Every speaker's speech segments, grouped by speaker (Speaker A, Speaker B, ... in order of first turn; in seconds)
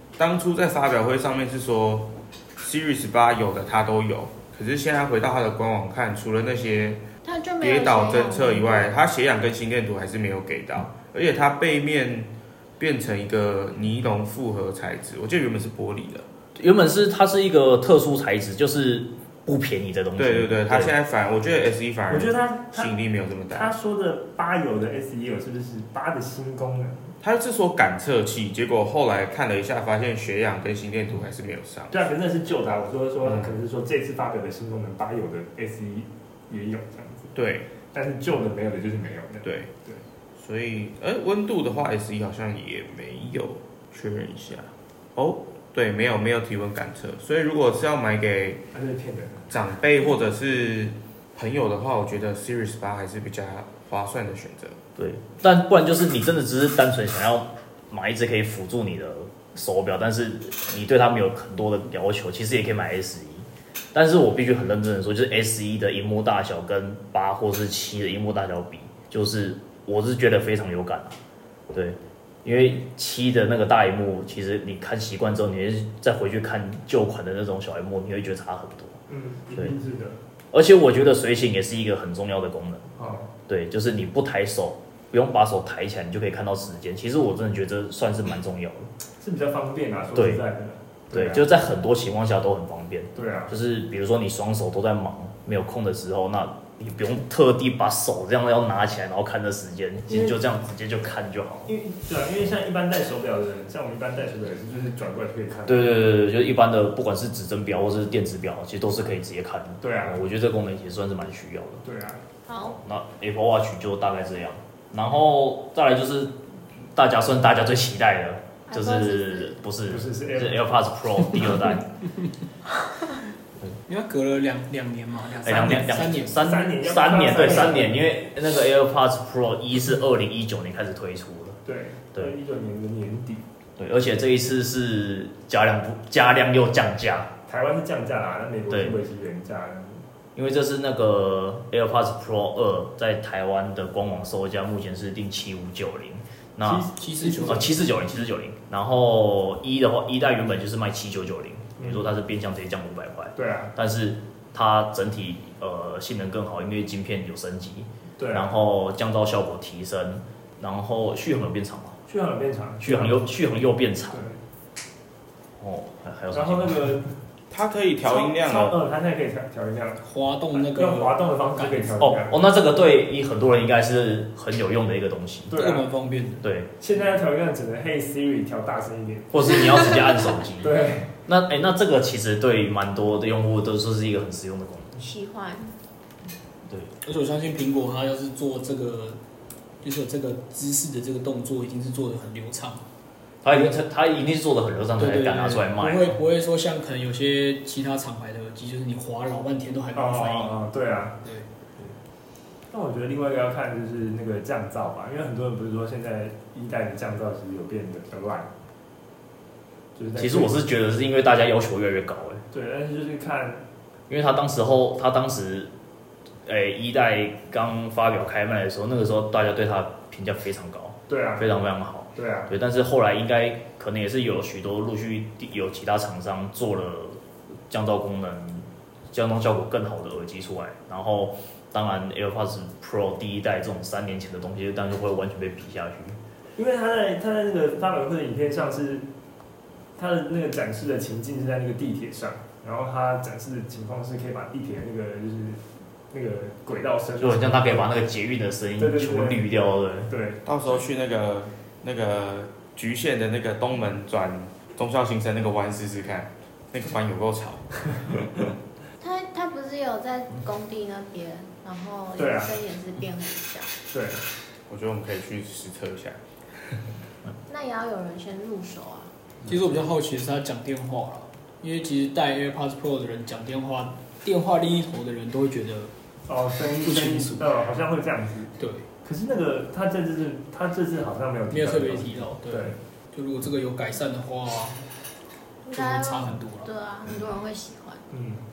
Speaker A: 0.1-7.0, 7.6-16.3, 20.2-23.7, 27.2-32.0, 37.3-37.7, 39.4-39.7, 40.4-48.6, 49.5-54.8, 167.5-168.8, 250.4-258.3, 264.7-266.2
Speaker B: 7.2-8.9, 112.5-112.8, 118.7-119.6, 184.9-185.7, 259.0-263.7, 267.5-269.1, 285.6-288.0
Speaker C: 16.6-20.9, 55.0-71.2, 71.7-79.0, 80.5-82.9, 83.5-88.9, 90.1-90.4, 91.1-101.7, 105.7-111.8, 112.7-116.4, 116.9-121.9, 125.4-131.6, 133.8-137.3, 138.7-139.0, 140.3-146.9, 147.4-162.0, 162.8-164.2, 165.6-167.0, 172.0-175.5, 176.4-176.7, 179.3-185.0, 186.7-186.9, 193.4-196.2, 210.2-212.4, 214.1-215.7, 216.4-236.2, 247.2-250.1
Speaker D: 22.1-22.9, 23.5-27.1, 31.9-37.3, 37.9-40.0, 48.7-49.5, 79.1-80.2, 83.0-83.3, 89.2-91.4, 93.1-93.5, 100.1-100.4, 101.7-106.0, 109.8-110.2, 111.8-112.2, 119.9-120.7, 126.4-128.0, 131.6-133.4, 137.5-140.0, 146.6-147.7, 151.8-152.1, 153.4-153.7, 158.2-158.5, 162.1-163.3, 164.1-164.4, 166.3-167.1, 168.0-170.0, 170.5-172.4, 175.5-175.9, 176.8-180.0, 180.6-181.1, 199.9-201.2, 202.7-208.5, 209.9-210.6, 212.5-213.6, 221.1-221.5, 222.2-222.5, 236.6-239.1, 240.0-247.9, 248.8-250.4, 262.2-262.5, 263.9-264.2, 276.3-282.8, 288.1-288.4
Speaker E: 123.9-126.4, 146.9-147.7, 170.0-171.9, 175.5-176.4, 187.0-189.2, 189.8-192.8, 195.0-200.5, 269.4-275.9, 276.8-277.5, 278.6-278.9, 281.5-284.9, 285.7-286.7